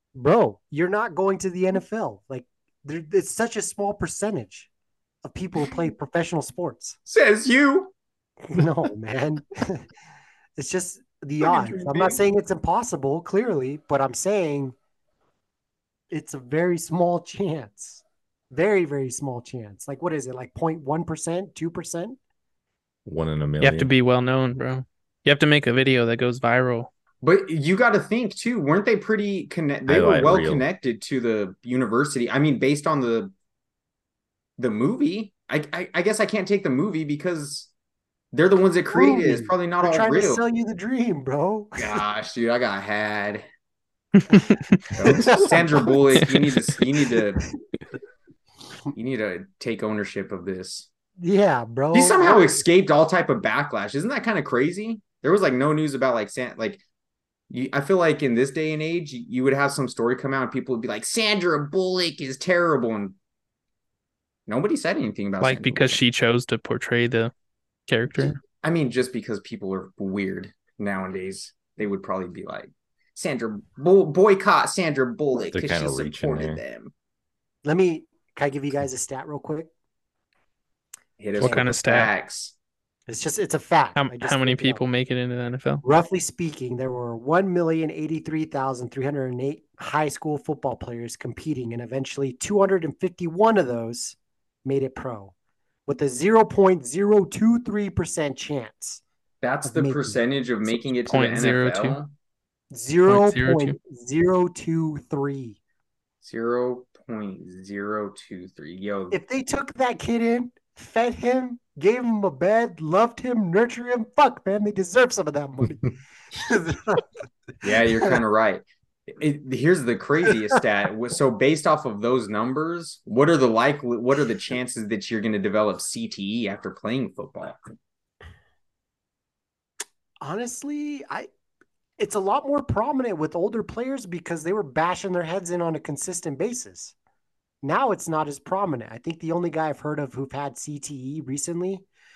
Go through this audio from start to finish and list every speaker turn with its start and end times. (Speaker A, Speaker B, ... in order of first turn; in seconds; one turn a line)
Speaker A: 0.1-4.7
Speaker A: 5.2-7.0
Speaker B: 7.1-7.9
Speaker A: 8.5-9.8
Speaker A: 10.6-14.8
Speaker B: 11.4-12.2
Speaker A: 16.1-22.2
Speaker C: 23.1-23.9
Speaker D: 23.6-26.9
Speaker B: 27.2-33.3
Speaker C: 29.9-30.7
Speaker B: 34.6-37.7
Speaker B: 38.3-40.4
Speaker A: 38.9-42.0
Speaker B: 41.8-43.5
Speaker D: 44.3-44.7
Speaker B: 44.9-47.4
Speaker A: 45.0-45.9
Speaker B: 48.9-50.9
Speaker A: 51.2-52.6
Speaker B: 51.9-56.8
Speaker B: 57.5-63.2
Speaker B: 64.5-66.0
Speaker D: 65.4-67.3
Speaker D: 67.9-68.4
Speaker B: 68.6-76.9
Speaker C: 75.5-76.6
Speaker A: 77.6-79.7
Speaker B: 81.2-82.5
Speaker D: 81.4-82.1
Speaker A: 81.4-81.6
Speaker A: 83.1-84.8
Speaker D: 84.0-85.8
Speaker A: 85.8-95.3
Speaker A: 95.9-99.0
Speaker B: 99.4-102.1
Speaker A: 99.7-100.2
Speaker D: 101.1-102.0
Speaker A: 102.7-105.6
Speaker D: 103.1-103.8
Speaker B: 106.2-109.2
Speaker A: 109.1-117.1
Speaker B: 117.6-127.6
Speaker A: 130.2-131.3
Speaker A: 132.0-136.9
Speaker A: 137.6-141.8